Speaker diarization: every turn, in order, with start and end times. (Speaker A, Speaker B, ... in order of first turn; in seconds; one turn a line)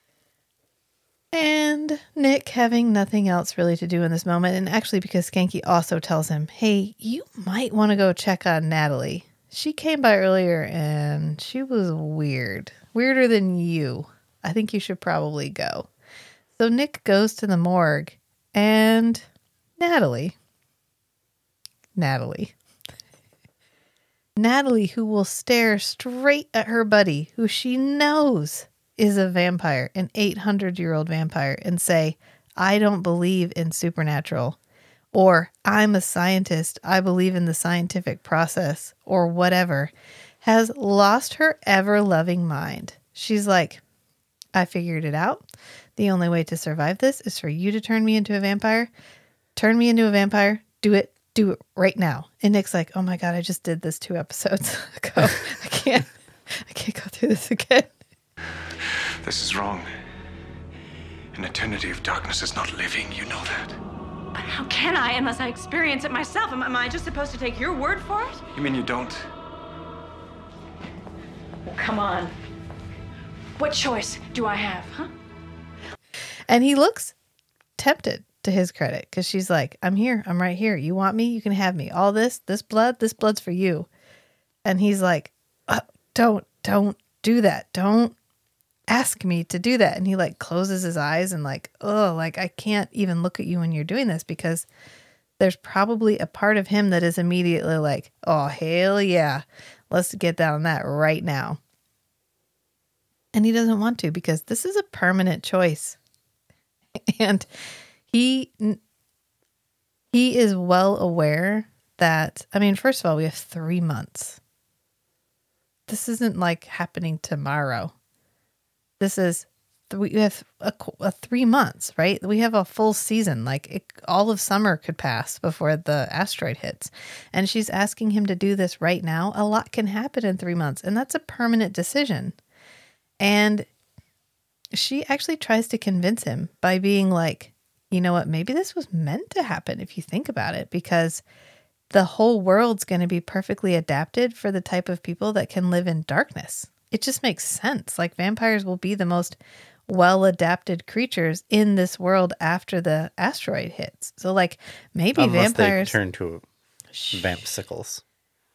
Speaker A: 1.3-15.9
Speaker A: 16.6-19.2
Speaker A: 19.8-20.4
Speaker A: 22.0-22.5
Speaker A: 24.4-34.6
Speaker A: 35.1-43.8
Speaker A: 44.5-45.5
Speaker A: 46.0-48.9
Speaker A: 49.6-57.9
Speaker B: 59.2-59.9
Speaker B: 61.3-63.8
Speaker C: 64.3-68.4
Speaker B: 68.5-69.2
Speaker C: 71.7-72.3
Speaker C: 73.6-75.1
Speaker A: 76.5-77.2
Speaker A: 77.8-83.9
Speaker A: 84.7-88.2
Speaker A: 88.9-94.7
Speaker A: 95.4-101.6
Speaker A: 103.3-106.0
Speaker A: 107.0-107.5
Speaker A: 108.1-108.8
Speaker A: 110.1-114.4
Speaker A: 115.9-117.9
Speaker A: 119.0-132.3
Speaker A: 133.2-133.7
Speaker A: 134.7-141.2
Speaker A: 141.9-156.0
Speaker D: 155.2-156.4
Speaker A: 156.9-157.4
Speaker D: 157.1-158.0